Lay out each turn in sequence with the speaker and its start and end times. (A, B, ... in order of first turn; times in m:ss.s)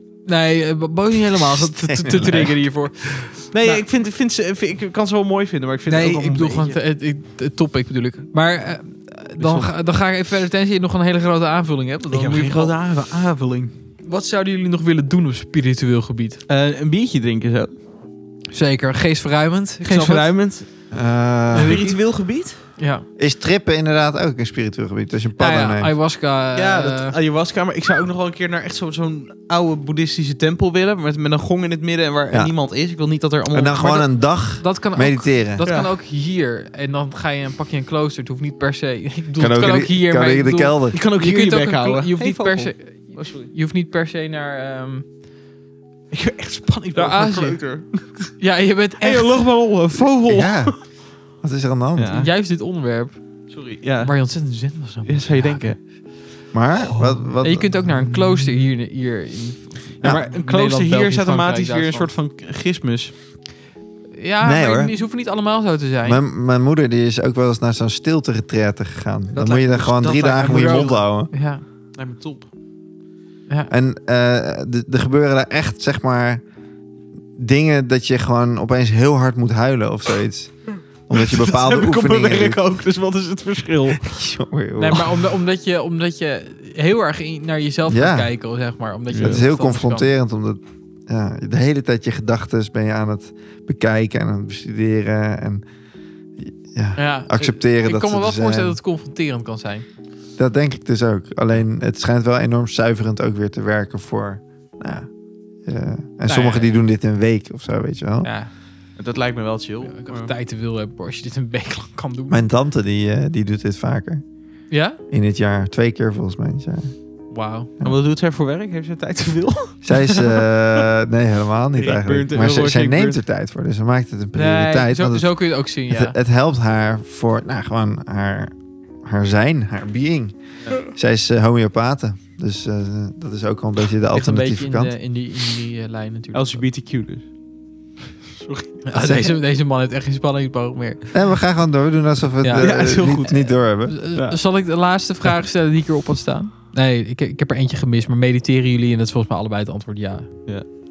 0:00.2-0:03.8 A
0:01.5-0:02.6 B
0:03.5-0:06.8 C
0:05.9-0:12.7 A
0:09.4-0:09.7 C
0:12.1-0:13.7 C
0:14.0-0:16.4 A
0:16.5-0:17.7 C
0:18.5-0:20.3 A
0:19.8-0:20.7 C
0:20.9-0:21.8 B
0:21.5-0:22.0 A
0:21.5-0:22.6 C
0:22.8-0:23.0 A
0:23.2-0:25.9 B
0:25.4-0:27.1 A
0:26.5-0:34.1 C
0:33.5-0:35.6 B
0:34.6-0:45.0 A
0:35.6-0:35.9 C
0:39.4-0:41.0 B
0:40.9-0:43.5 C
0:46.1-0:48.3 C
0:46.9-0:47.6 A
0:48.4-0:49.4 A
0:49.0-0:50.8 C
0:50.2-0:50.8 B
0:51.4-0:52.1 B
0:52.0-0:52.3 C
0:52.1-0:53.2 A
0:53.5-0:54.1 C
0:54.0-0:55.8 A
0:55.0-0:55.8 C
0:56.5-0:58.5 B
0:57.4-1:02.1 A
1:00.0-1:03.1 C
1:04.1-1:06.2 A
1:04.4-1:04.9 B
1:06.0-1:11.3 B
1:09.3-1:11.6 A
1:10.1-1:10.9 C
1:12.0-1:12.5 C
1:13.7-1:16.4 B
1:17.4-1:20.5 B
1:21.1-1:22.6 B
1:21.1-1:24.1 C
1:24.0-1:25.1 B
1:24.8-1:30.1 A
1:27.9-1:28.3 B
1:29.1-1:29.4 C
1:29.1-1:35.6 B
1:36.4-1:38.8 B
1:37.0-1:39.8 A
1:40.4-1:45.1 B
1:45.6-1:48.3 B
1:46.3-1:46.7 A
1:48.2-1:48.5 A
1:49.0-1:50.3 C
1:49.8-1:52.4 A
1:52.3-1:54.2 B
1:54.7-1:55.0 A
1:55.1-1:56.9 B
1:57.3-1:57.7 A
1:57.8-2:00.4 C
1:59.8-2:14.9 B
2:01.8-2:03.2 C
2:04.3-2:06.2 A
2:14.1-2:16.6 A
2:16.3-2:17.2 C
2:18.4-2:18.8 C
2:18.8-2:21.1 A
2:18.9-2:19.4 B
2:21.1-2:23.9 B
2:22.4-2:22.7 A
2:22.6-2:23.5 C
2:23.9-2:30.3 A